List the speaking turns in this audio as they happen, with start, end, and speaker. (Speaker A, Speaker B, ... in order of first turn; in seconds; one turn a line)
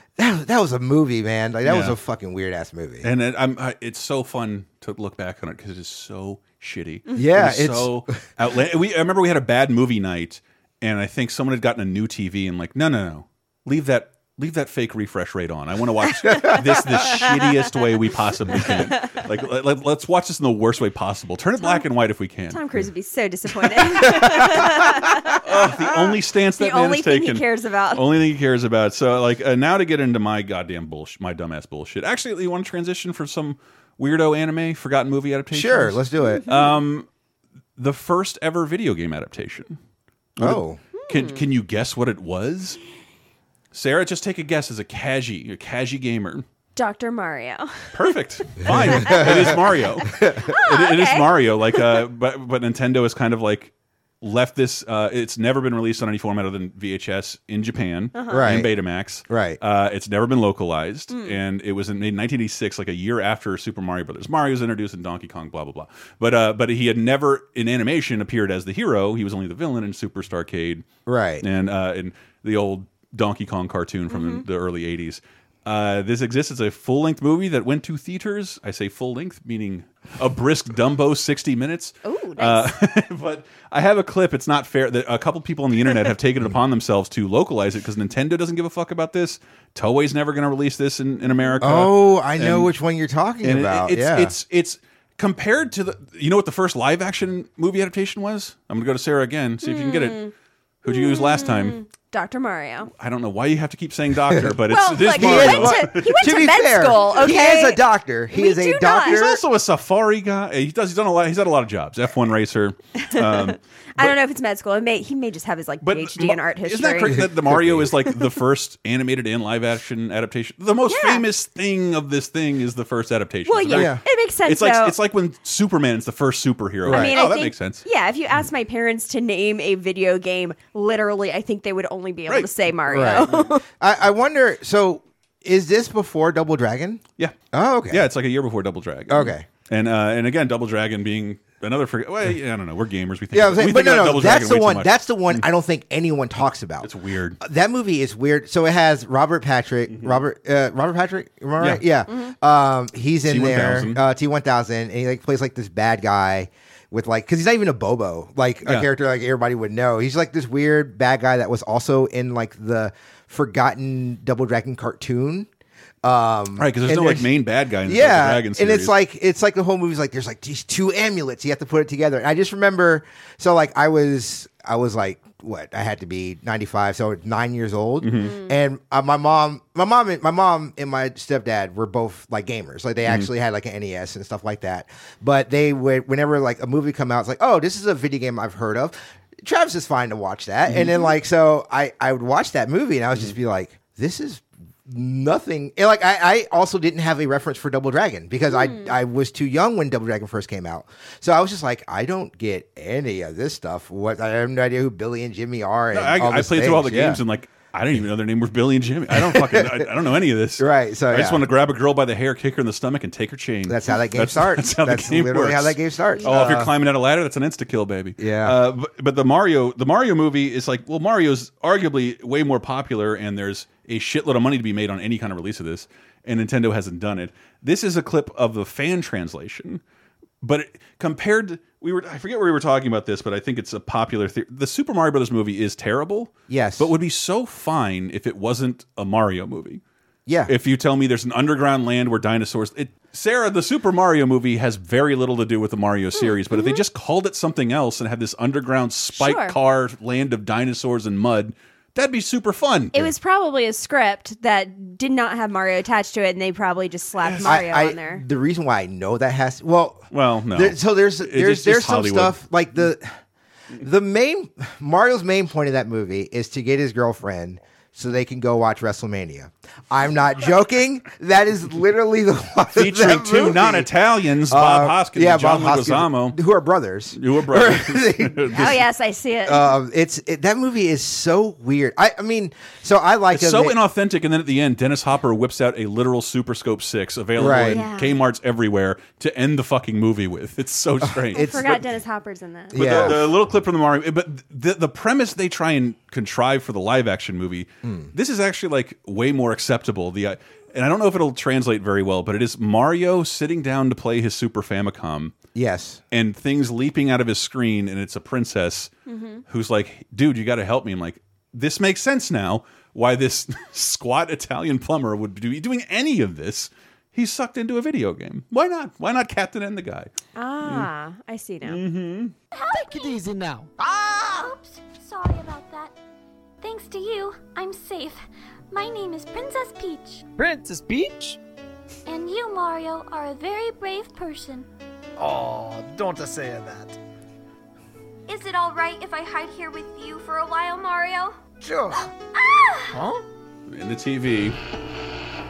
Speaker A: 0.2-3.1
Speaker B: 1.6-1.9
Speaker B: 3.0-22.6
Speaker A: 7.1-8.2
Speaker C: 16.2-16.6
Speaker C: 17.2-17.5
Speaker C: 18.5-19.2
Speaker C: 22.5-25.8
Speaker A: 24.0-24.7
Speaker B: 25.4-37.1
Speaker C: 26.6-28.0
Speaker A: 35.5-36.4
Speaker C: 36.3-36.8
Speaker B: 37.8-39.8
Speaker B: 40.4-42.8
Speaker A: 40.4-40.8
Speaker C: 40.9-41.4
Speaker B: 43.7-46.4
Speaker C: 46.8-48.0
Speaker B: 47.9-50.1
Speaker C: 48.5-49.6
Speaker A: 49.0-49.5
Speaker C: 50.5-52.0
Speaker B: 50.6-70.8
Speaker C: 58.1-58.5
Speaker A: 58.3-58.7
Speaker A: 59.3-59.6
Speaker C: 61.1-61.4
Speaker A: 71.0-71.4
Speaker B: 71.4-92.7
Speaker C: 74.1-74.4
Speaker C: 82.0-82.7
Speaker C: 91.3-91.6
Speaker A: 91.6-94.3
Speaker B: 93.4-100.2
Speaker C: 99.6-100.3
Speaker B: 100.8-101.8
Speaker C: 100.9-102.9
Speaker B: 102.9-106.1
Speaker A: 104.3-104.6
Speaker C: 104.7-109.3
Speaker A: 105.1-109.4
Speaker B: 109.0-114.1
Speaker C: 113.0-117.3
Speaker B: 115.8-127.8
Speaker A: 117.0-117.9
Speaker C: 120.9-121.2
Speaker C: 123.5-124.9
Speaker A: 123.7-124.0
Speaker A: 126.8-127.1
Speaker C: 126.8-133.6
Speaker B: 132.3-132.5
Speaker A: 132.9-138.0
Speaker B: 133.1-133.3
Speaker B: 137.9-145.4
Speaker A: 139.1-139.4
Speaker A: 143.3-165.5
Speaker B: 146.8-147.4
Speaker B: 149.9-150.2
Speaker C: 152.1-152.3
Speaker B: 153.3-154.0
Speaker B: 158.6-158.9
Speaker A: 166.0-167.3
Speaker B: 166.6-168.9
Speaker A: 167.8-207.2
Speaker B: 178.0-178.3
Speaker C: 178.2-178.5
Speaker C: 190.8-191.1
Speaker C: 198.5-198.9
Speaker B: 205.9-229.8
Speaker A: 209.1-209.9
Speaker A: 210.6-211.4
Speaker A: 213.7-216.7
Speaker A: 218.2-218.6
Speaker B: 230.4-239.8
Speaker A: 236.5-236.9
Speaker A: 240.2-240.5
Speaker B: 240.4-253.1
Speaker C: 246.1-246.8
Speaker C: 249.2-249.5
Speaker C: 252.9-258.2
Speaker B: 257.2-257.6
Speaker A: 257.4-263.2
Speaker B: 260.1-262.4
Speaker A: 263.8-273.9
Speaker B: 272.7-276.4
Speaker A: 274.5-278.7
Speaker B: 277.1-278.7
Speaker C: 278.5-279.8
Speaker A: 279.4-283.7
Speaker B: 283.3-291.8
Speaker A: 287.4-287.8
Speaker C: 287.7-288.1
Speaker A: 291.1-291.6
Speaker C: 291.4-293.1
Speaker A: 292.7-293.2
Speaker B: 292.7-305.3
Speaker A: 297.8-298.1
Speaker A: 305.5-306.0
Speaker B: 306.1-308.9
Speaker C: 309.1-309.4
Speaker B: 309.5-320.1
Speaker C: 320.4-321.8
Speaker B: 321.6-322.3
Speaker D: 322.5-323.3
Speaker E: 323.1-323.5
Speaker D: 323.9-325.9
Speaker D: 326.6-330.2
Speaker E: 330.4-331.4
Speaker D: 332.1-334.7
Speaker E: 335.2-336.9
Speaker D: 338.3-341.4
Speaker D: 341.9-343.0
Speaker B: 343.7-344.6